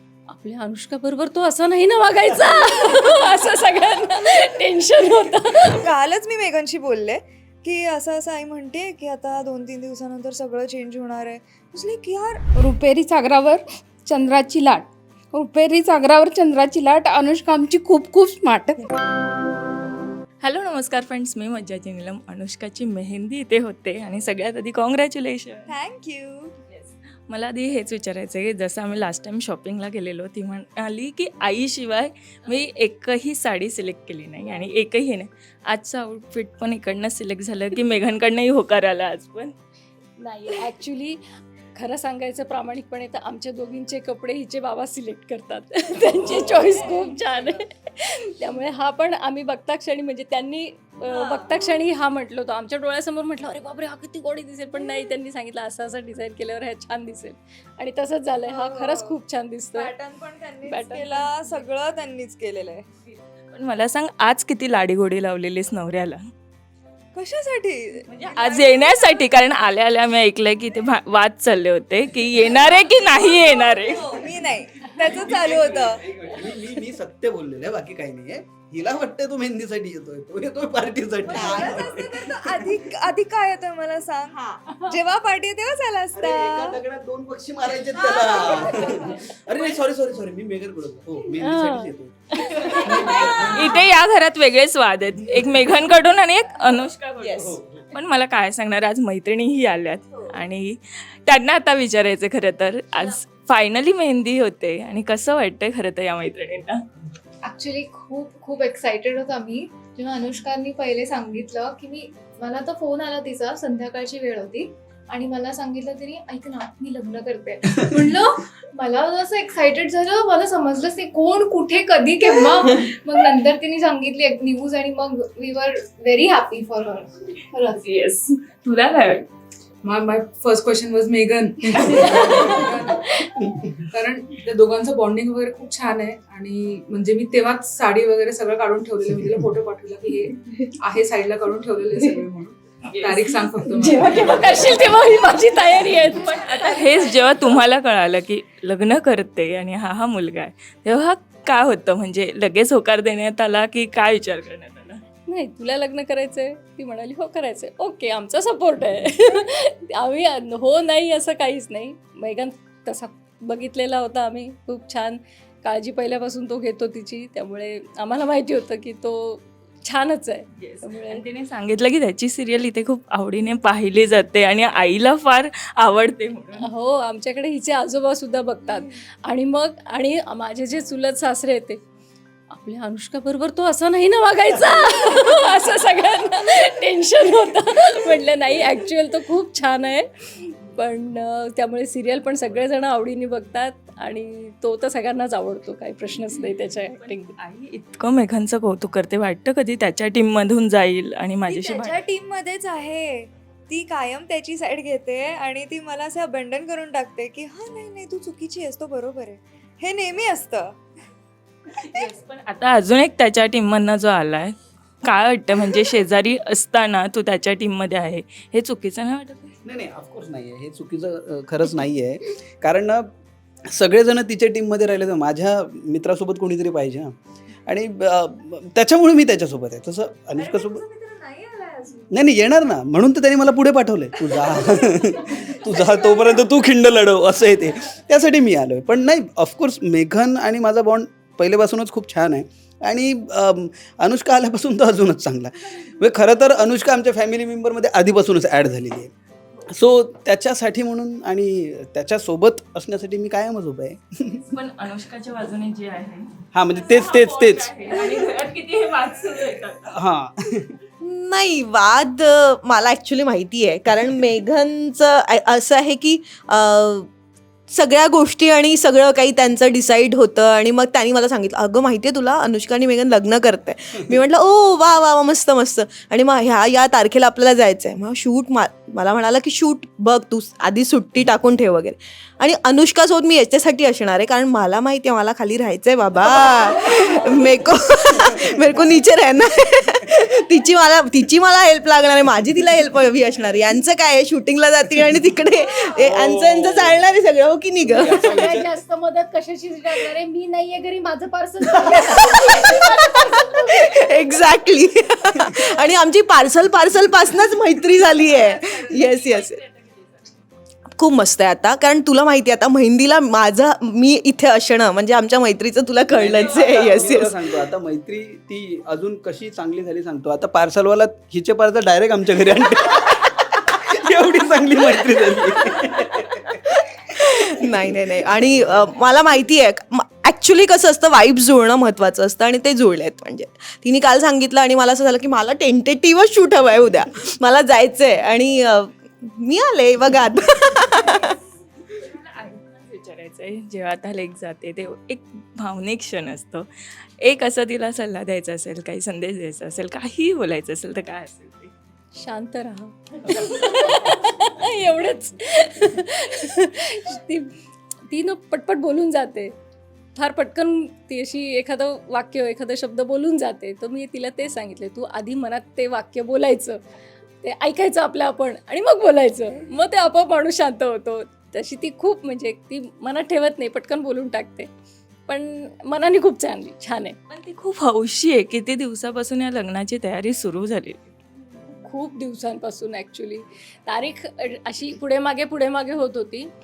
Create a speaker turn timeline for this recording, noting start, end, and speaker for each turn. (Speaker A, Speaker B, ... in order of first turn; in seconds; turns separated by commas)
Speaker A: 0.3-5.8, Speaker B: 5.8-12.4, Speaker C: 12.6-18.8, Speaker D: 20.4-25.7, Speaker B: 25.7-26.5, Speaker D: 26.7-39.5, Speaker A: 40.2-60.0, Speaker B: 51.1-51.8, Speaker B: 58.4-59.2, Speaker B: 59.8-62.9, Speaker A: 60.6-61.4, Speaker D: 63.5-66.2, Speaker B: 67.1-69.3, Speaker D: 68.1-74.2, Speaker B: 72.4-76.0, Speaker E: 75.0-82.7, Speaker B: 81.3-86.8, Speaker F: 81.3-81.9, Speaker E: 86.2-93.7, Speaker B: 88.3-89.1, Speaker A: 91.4-91.9, Speaker A: 92.4-93.0, Speaker D: 92.7-106.8, Speaker E: 97.3-97.8, Speaker G: 107.4-128.0, Speaker D: 127.8-129.2, Speaker H: 129.8-133.0, Speaker D: 131.7-132.6, Speaker G: 131.8-132.6, Speaker H: 133.9-144.1, Speaker A: 143.8-146.8, Speaker D: 146.4-155.0, Speaker A: 155.3-171.2, Speaker D: 170.6-176.7, Speaker A: 176.6-181.8, Speaker A: 182.5-197.4, Speaker D: 197.0-202.0, Speaker B: 201.5-210.8, Speaker D: 211.8-219.6, Speaker E: 219.7-223.1, Speaker E: 223.7-230.8, Speaker B: 230.3-232.2, Speaker E: 232.1-249.1, Speaker B: 234.3-236.5, Speaker E: 249.7-254.4, Speaker D: 254.5-259.9, Speaker E: 256.5-257.7, Speaker E: 259.9-260.7, Speaker F: 261.0-267.1, Speaker F: 267.7-298.6, Speaker E: 296.0-297.0, Speaker E: 297.9-298.7, Speaker A: 298.3-303.7, Speaker E: 301.9-302.2, Speaker F: 301.9-309.6, Speaker D: 308.3-310.3, Speaker F: 310.9-317.4, Speaker E: 316.1-326.7, Speaker D: 316.3-317.1, Speaker F: 327.2-341.3, Speaker D: 341.9-346.7, Speaker D: 347.2-351.7, Speaker A: 352.1-357.6, Speaker A: 358.1-359.5, Speaker A: 360.1-366.8, Speaker A: 367.4-374.7, Speaker A: 375.3-377.2, Speaker D: 377.3-381.1, Speaker A: 381.7-386.5